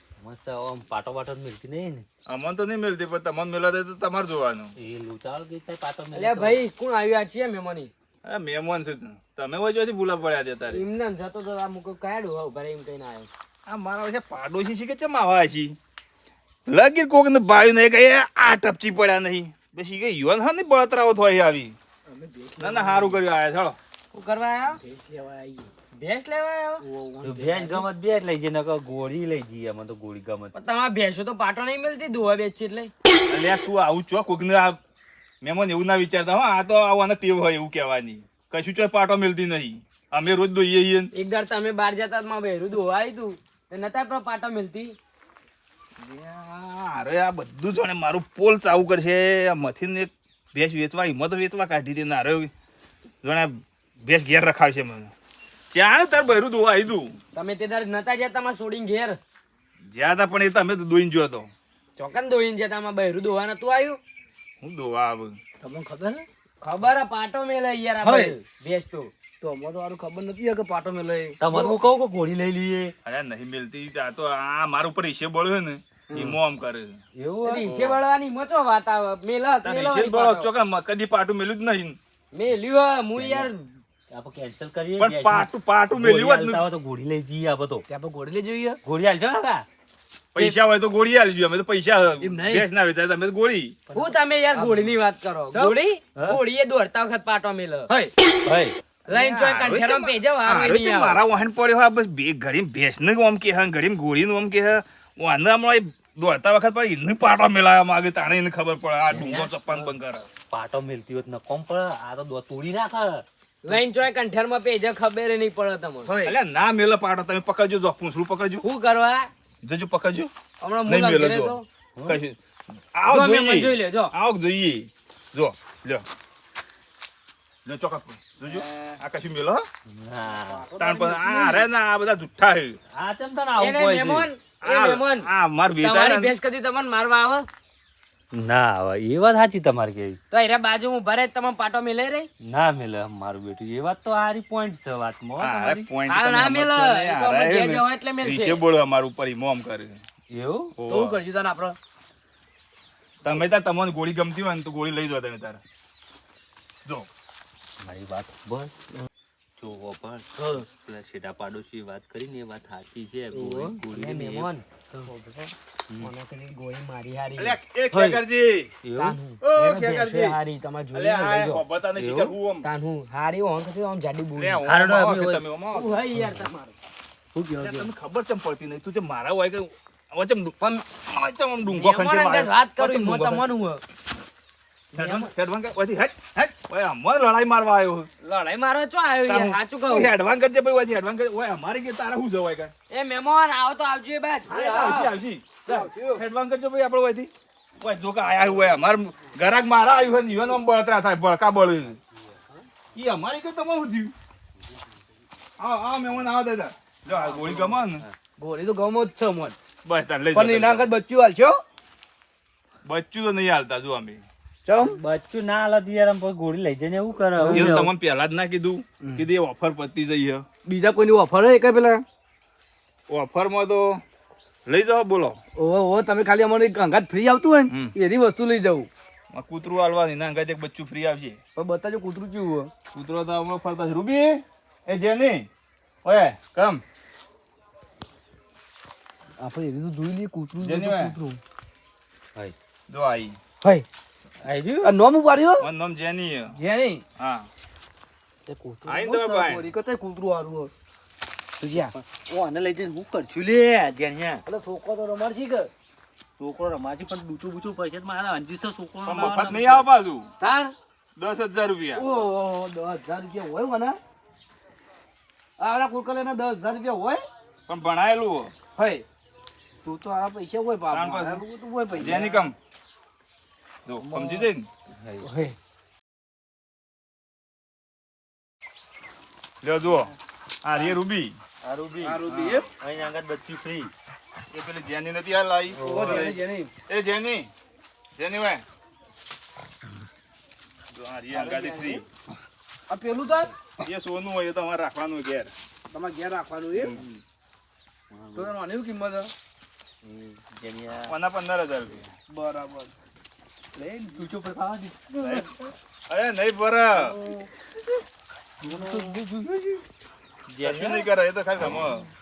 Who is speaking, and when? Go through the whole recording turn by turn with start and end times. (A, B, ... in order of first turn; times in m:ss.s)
0:00.2-0:02.1 A
0:02.3-0:04.7 B
0:04.8-0:06.6 A
0:06.1-0:07.9 C
0:08.2-0:10.8 B
0:10.7-0:13.3 C
0:13.7-0:15.8 B
0:16.7-0:21.8 B
0:22.1-0:23.2 D
0:22.6-0:23.8 B
0:24.1-0:24.8 C
0:24.7-0:25.7 D
0:25.9-0:26.8 C
0:26.8-0:27.9 D
0:27.2-0:30.6 A
0:30.5-0:32.9 C
0:33.3-0:34.8 B
0:35.4-0:41.1 B
0:41.1-0:45.0 C
0:46.0-0:52.5 B
0:53.2-0:55.1 B
0:55.7-0:57.1 B
0:57.3-0:59.2 C
0:59.9-1:01.5 B
1:02.0-1:04.0 C
1:04.6-1:05.4 B
1:05.6-1:06.2 D
1:06.6-1:09.1 C
1:08.0-1:08.4 D
1:09.4-1:11.8 D
1:11.4-1:12.9 A
1:13.0-1:17.0 B
1:17.2-1:17.7 A
1:17.5-1:20.5 C
1:17.6-1:18.0 B
1:19.6-1:22.0 B
1:22.3-1:23.7 C
1:23.2-1:23.5 A
1:24.1-1:27.8 A
1:25.0-1:26.6 B
1:27.9-1:28.8 D
1:28.8-1:29.7 A
1:30.3-1:33.8 B
1:32.2-1:32.7 D
1:33.9-1:34.9 D
1:34.0-1:37.9 C
1:36.2-1:36.4 A
1:37.9-1:38.1 D
1:38.4-1:38.8 A
1:39.1-1:50.3 B
1:39.1-1:41.2 C
1:49.1-1:49.9 A
1:50.5-1:53.7 A
1:53.6-1:56.1 C
1:56.0-1:56.3 D
1:56.2-1:58.7 B
1:58.6-1:59.3 C
1:59.6-2:00.3 B
2:00.6-2:01.6 C
2:00.9-2:02.4 B
2:02.0-2:02.2 A
2:02.9-2:06.0 B
2:03.1-2:04.1 C
2:07.7-2:09.6 B
2:08.4-2:09.0 D
2:09.9-2:10.6 A
2:10.3-2:11.7 D
2:10.8-2:12.8 B
2:13.0-2:14.3 A
2:13.6-2:15.3 C
2:14.6-2:16.3 B
2:15.8-2:17.5 C
2:18.4-2:20.2 A
2:20.3-2:22.3 C
2:22.4-2:25.8 A
2:25.4-2:30.0 B
2:26.1-2:28.6 C
2:30.3-2:30.7 A
2:30.8-2:31.2 B
2:30.9-2:31.8 D
2:33.2-2:35.6 B
2:37.8-2:38.7 A
2:39.6-2:45.1 A
2:40.4-2:40.6 D
2:43.5-2:45.4 C
2:46.0-2:47.6 C
2:47.4-2:48.8 B
2:47.9-2:48.2 D
2:48.8-2:49.2 A
2:49.0-2:51.6 C
2:49.4-2:50.4 B
2:50.9-2:52.7 B
2:52.0-2:52.4 A
2:52.6-2:54.7 C
2:54.4-2:56.0 B
2:54.7-2:55.4 A
2:55.7-2:56.8 C
2:57.4-2:57.9 D
2:57.6-3:03.5 B
3:00.6-3:00.9 C
3:01.7-3:03.8 C
3:04.9-3:05.3 C
3:05.0-3:08.1 B
3:08.2-3:10.1 C
3:09.3-3:12.7 B
3:12.9-3:14.5 C
3:14.5-3:15.1 D
3:14.5-3:22.0 B
3:15.7-3:16.2 D
3:23.0-3:24.1 B
3:25.6-3:28.0 B
3:27.1-3:27.7 D
3:28.4-3:29.6 D
3:29.8-3:30.9 B
3:30.3-3:31.6 D
3:32.8-3:34.2 B
3:34.6-3:35.0 D
3:34.8-3:37.9 A
3:37.4-3:37.8 D
3:37.5-3:40.4 B
3:40.7-3:42.0 D
3:43.1-3:44.0 B
3:44.7-3:45.4 B
3:45.6-3:48.9 D
3:49.3-3:51.4 B
3:51.6-3:52.7 D
3:52.9-3:55.5 B
3:56.0-3:56.8 B
3:59.4-4:01.4 D
4:00.6-4:01.2 B
4:02.9-4:03.4 B
4:03.6-4:03.9 D
4:04.4-4:04.9 A
4:04.8-4:05.7 D
4:05.6-4:06.6 B
4:06.5-4:07.0 D
4:07.2-4:07.5 B
4:08.5-4:10.7 D
4:08.9-4:09.7 B
4:11.6-4:11.9 D
4:11.8-4:14.4 A
4:14.5-4:15.7 D
4:16.4-4:19.9 A
4:19.0-4:20.3 B
4:20.4-4:20.7 D
4:21.2-4:22.0 B
4:22.0-4:24.0 D
4:25.6-4:27.2 D
4:27.7-4:28.5 B
4:28.8-4:29.0 D
4:29.8-4:32.5 D
4:30.9-4:31.4 B
4:32.0-4:32.6 B
4:33.9-4:34.7 B
4:34.0-4:34.5 D
4:35.0-4:35.3 A
4:35.2-4:35.6 D
4:39.6-4:40.1 B
4:40.6-4:41.4 B
4:41.6-4:42.2 A
4:42.0-4:42.7 D
4:42.3-4:42.6 B
4:42.8-4:43.9 A
4:44.5-4:46.4 B
4:45.8-4:46.3 A
4:45.8-4:46.7 D
4:46.9-4:47.5 B
4:48.2-4:48.6 B
4:50.9-4:52.0 B
4:51.3-4:52.0 D
4:52.9-4:53.5 D
4:53.8-4:55.5 B
4:55.9-4:57.0 D
4:56.7-4:57.0 B
4:58.1-4:58.5 A
4:58.4-4:59.3 D
5:00.0-5:01.1 A
5:01.1-5:02.1 B
5:02.3-5:02.9 D
5:03.8-5:05.5 A
5:05.2-5:05.5 B
5:06.1-5:07.2 B
5:07.0-5:07.5 D
5:08.6-5:09.8 A
5:08.6-5:09.2 D
5:10.5-5:11.1 A
5:10.6-5:12.1 B
5:11.6-5:11.9 A